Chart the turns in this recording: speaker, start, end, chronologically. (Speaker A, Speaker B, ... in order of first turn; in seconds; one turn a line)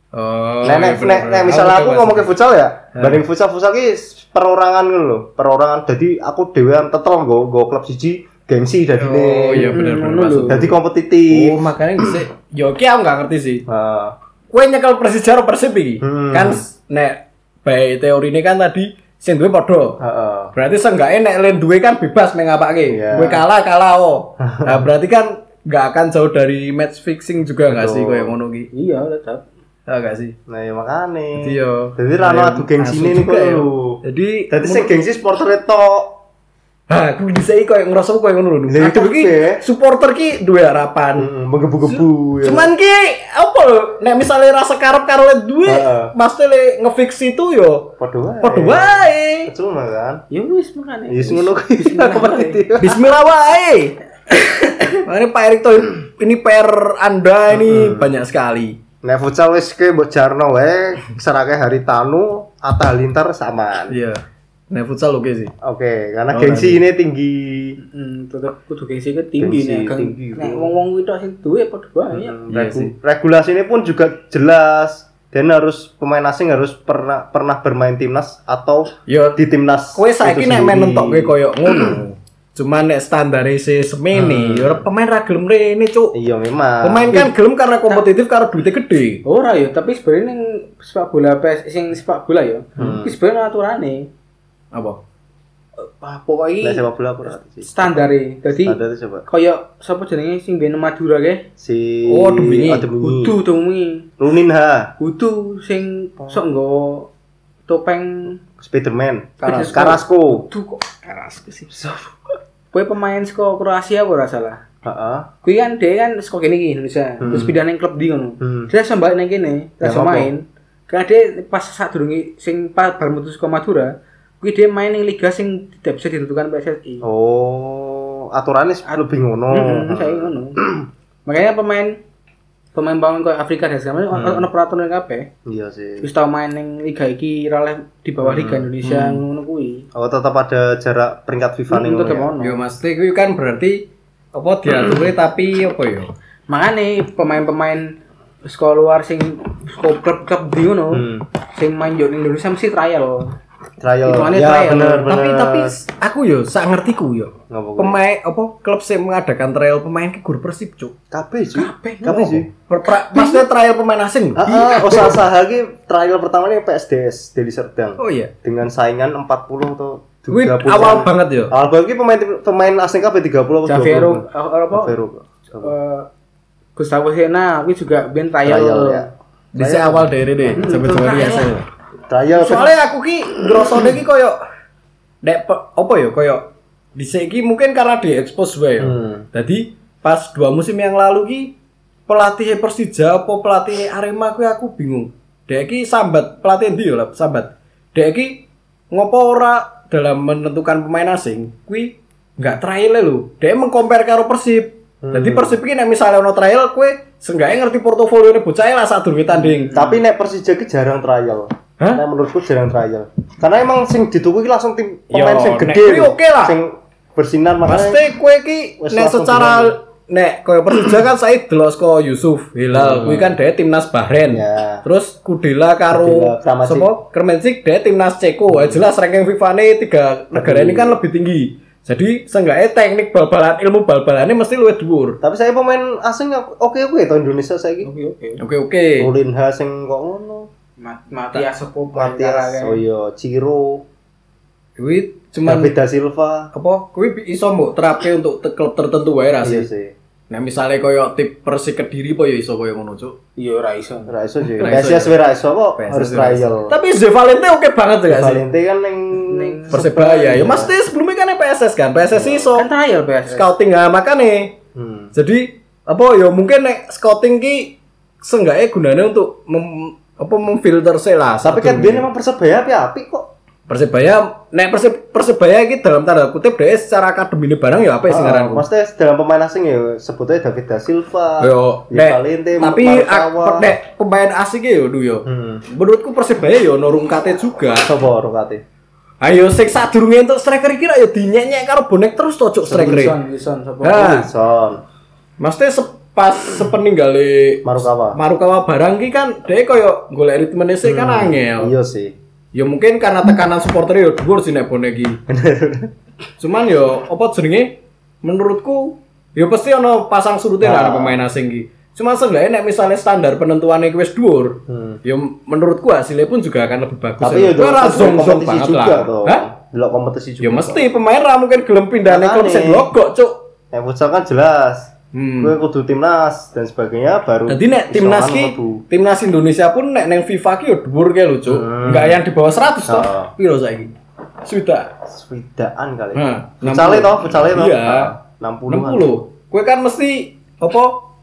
Speaker A: 0.1-2.3
Speaker B: 0.6-9.8
Speaker A: 3.0-3.2
Speaker A: 9.0-10.8
Speaker C: 9.6-10.6
Speaker B: 10.4-12.2
Speaker A: 11.3-13.6
Speaker B: 13.7-14.1
Speaker A: 14.5-20.0
Speaker B: 16.0-16.6
Speaker B: 20.0-20.5
Speaker A: 20.6-28.7
Speaker B: 22.9-23.4
Speaker B: 24.4-24.9
Speaker B: 27.7-28.3
Speaker C: 28.7-29.4
Speaker A: 29.9-30.4
Speaker B: 30.5-36.2
Speaker A: 31.4-34.9
Speaker A: 36.9-41.3
Speaker B: 38.7-39.6
Speaker B: 41.2-42.7
Speaker A: 41.9-49.5
Speaker B: 45.6-46.1
Speaker B: 48.0-50.2
Speaker C: 50.3-52.6
Speaker B: 51.1-53.0
Speaker A: 52.8-54.0
Speaker C: 54.3-55.0
Speaker A: 55.0-58.8
Speaker B: 57.5-58.1
Speaker B: 59.0-64.0
Speaker A: 63.9-65.5
Speaker B: 65.6-67.8
Speaker A: 66.3-66.8
Speaker C: 67.8-72.4
Speaker B: 69.4-70.7
Speaker B: 72.1-82.0
Speaker A: 72.5-72.9
Speaker A: 79.1-79.4
Speaker A: 80.0-86.1
Speaker B: 84.1-84.8
Speaker B: 86.1-87.3
Speaker A: 86.8-89.2
Speaker C: 89.2-94.1
Speaker B: 92.8-93.1
Speaker A: 94.7-95.0
Speaker C: 95.8-96.8
Speaker B: 96.6-97.9
Speaker C: 97.6-101.5
Speaker B: 98.6-99.3
Speaker B: 101.6-103.4
Speaker A: 102.1-102.9
Speaker C: 103.0-104.1
Speaker B: 104.2-104.9
Speaker C: 105.0-107.1
Speaker C: 107.7-108.4
Speaker B: 108.6-110.5
Speaker C: 109.4-111.7
Speaker B: 111.7-112.2
Speaker C: 112.7-114.6
Speaker B: 114.8-115.3
Speaker C: 115.4-127.0
Speaker B: 117.2-117.6
Speaker B: 118.4-118.7
Speaker B: 119.8-120.3
Speaker B: 127.0-130.9
Speaker C: 128.9-130.6
Speaker C: 131.3-131.9
Speaker C: 132.7-135.3
Speaker B: 134.1-134.4
Speaker B: 135.4-136.1
Speaker C: 136.0-139.9
Speaker B: 138.2-138.7
Speaker A: 138.8-139.2
Speaker B: 139.9-142.3
Speaker C: 141.7-142.6
Speaker A: 142.4-143.8
Speaker A: 144.3-146.1
Speaker C: 146.5-147.9
Speaker C: 148.5-153.3
Speaker B: 150.9-151.2
Speaker B: 153.8-155.7
Speaker C: 154.1-155.1
Speaker A: 155.1-160.9
Speaker B: 157.5-158.0
Speaker B: 161.1-162.5
Speaker C: 161.6-162.1
Speaker A: 162.0-165.0
Speaker C: 162.9-163.4
Speaker B: 164.4-175.7
Speaker C: 164.5-165.1
Speaker A: 168.0-168.3
Speaker A: 170.3-171.5
Speaker C: 173.7-174.9
Speaker C: 175.6-176.1
Speaker C: 176.8-179.1
Speaker B: 178.4-180.8
Speaker A: 179.6-181.6
Speaker C: 180.6-181.5
Speaker B: 182.1-182.7
Speaker A: 182.3-184.4
Speaker B: 183.4-183.9
Speaker A: 185.2-191.5
Speaker B: 188.8-189.3
Speaker A: 192.1-209.8
Speaker B: 205.0-205.6
Speaker B: 209.4-218.1
Speaker A: 215.1-216.6
Speaker A: 217.7-235.2
Speaker B: 218.8-219.7
Speaker B: 222.7-223.4
Speaker B: 224.3-224.8
Speaker B: 225.9-226.9
Speaker B: 228.5-228.8
Speaker B: 230.3-231.0
Speaker B: 235.2-237.9
Speaker C: 237.8-238.4
Speaker A: 238.4-239.1
Speaker B: 239.0-240.5
Speaker C: 240.8-242.8
Speaker B: 241.9-243.8
Speaker A: 244.8-245.7
Speaker B: 245.4-246.5
Speaker A: 246.5-249.7
Speaker B: 249.4-249.9
Speaker A: 250.3-253.2
Speaker C: 253.4-254.1
Speaker B: 254.1-256.8
Speaker A: 254.6-255.1
Speaker A: 255.8-258.4
Speaker B: 258.1-260.7
Speaker C: 259.1-259.8
Speaker A: 259.7-262.7
Speaker B: 262.1-262.6
Speaker C: 262.6-263.5
Speaker A: 263.3-264.5
Speaker B: 264.7-265.1
Speaker A: 265.1-272.1
Speaker B: 271.4-273.3
Speaker A: 273.7-278.7
Speaker B: 278.1-283.7
Speaker A: 281.4-287.9
Speaker B: 285.3-285.6
Speaker B: 287.7-288.6
Speaker A: 289.2-293.2
Speaker C: 292.7-294.2
Speaker A: 293.8-294.3
Speaker B: 294.0-294.8
Speaker A: 295.4-301.7
Speaker B: 297.6-298.2
Speaker B: 300.8-302.1
Speaker A: 302.5-305.2
Speaker B: 305.3-305.9
Speaker A: 306.4-319.4
Speaker B: 310.6-311.2
Speaker B: 314.7-315.0
Speaker B: 317.2-320.9
Speaker A: 320.4-323.4
Speaker B: 322.1-322.9
Speaker B: 323.7-328.8
Speaker A: 325.1-325.6
Speaker A: 327.5-333.9
Speaker B: 331.4-332.2
Speaker B: 332.9-333.3
Speaker A: 334.4-334.9
Speaker B: 335.1-339.1
Speaker A: 336.1-338.1
Speaker A: 338.7-341.0